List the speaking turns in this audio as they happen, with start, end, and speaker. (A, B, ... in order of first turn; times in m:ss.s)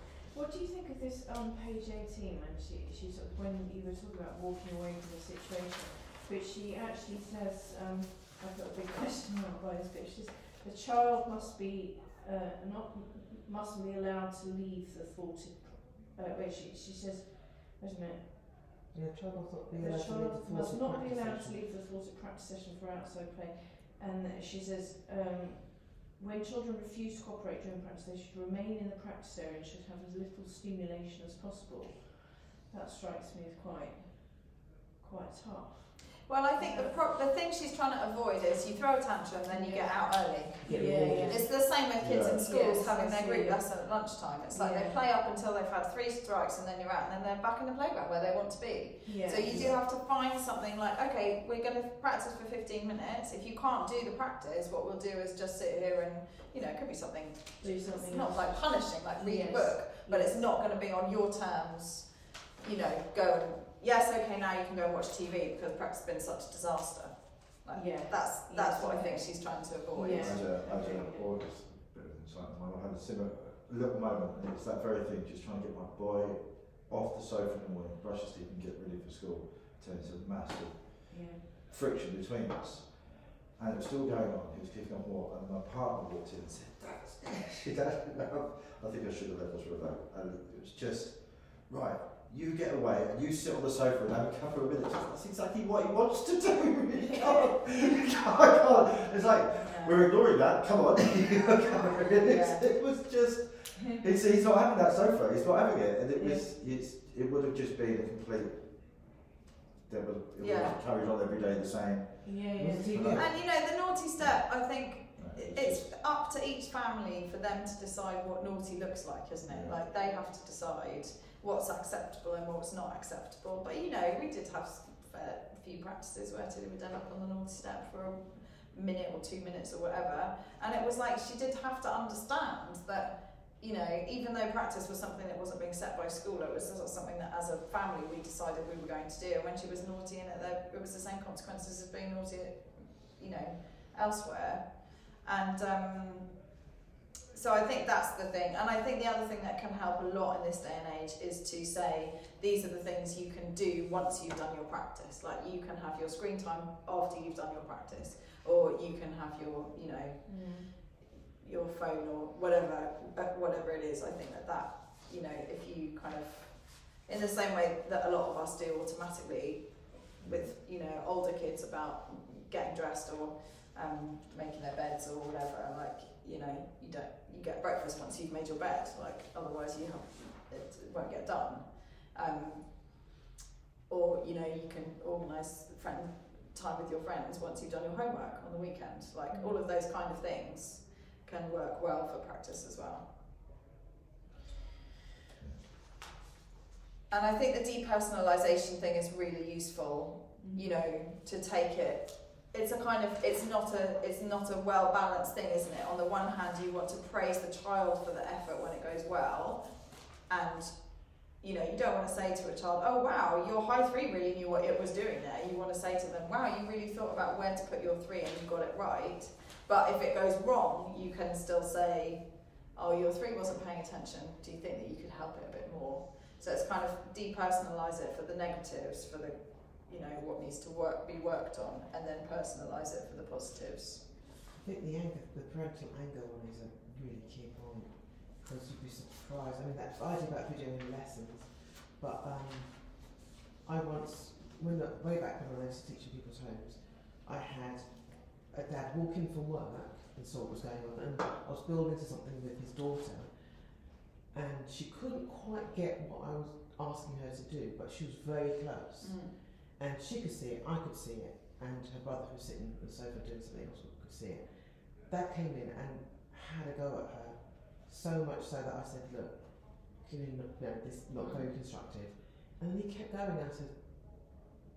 0:00.3-0:18.8 A
0:18.9-0:21.6 B
0:19.7-0:37.0 A
0:36.2-1:10.5 C
0:39.5-0:41.5 A
0:40.6-0:41.5 B
0:42.0-0:42.5 D
0:42.4-0:43.8 A
0:44.5-0:45.0 A
0:49.0-0:49.7 A
0:49.5-0:49.8 D
0:57.6-1:00.4 A
1:07.7-1:11.3 A
1:10.2-1:49.2 D
1:21.1-1:21.5 A
1:39.6-1:40.0 C
1:42.2-1:42.6 C
1:46.1-1:46.5 A
1:49.8-1:55.9 D
1:50.4-1:50.7 C
1:52.2-1:53.2 A
1:52.6-1:53.2 B
1:53.2-2:26.4 C
1:59.5-1:59.8 D
2:27.3-3:03.0 C
2:40.2-2:40.7 A
2:50.2-2:50.5 D
3:03.9-3:13.0 C
3:09.3-3:09.6 A
3:15.4-3:15.6 D
3:17.1-3:54.0 C
3:20.4-3:20.7 A
3:54.6-4:34.2 B
4:19.0-4:19.3 C
4:31.2-4:31.5 C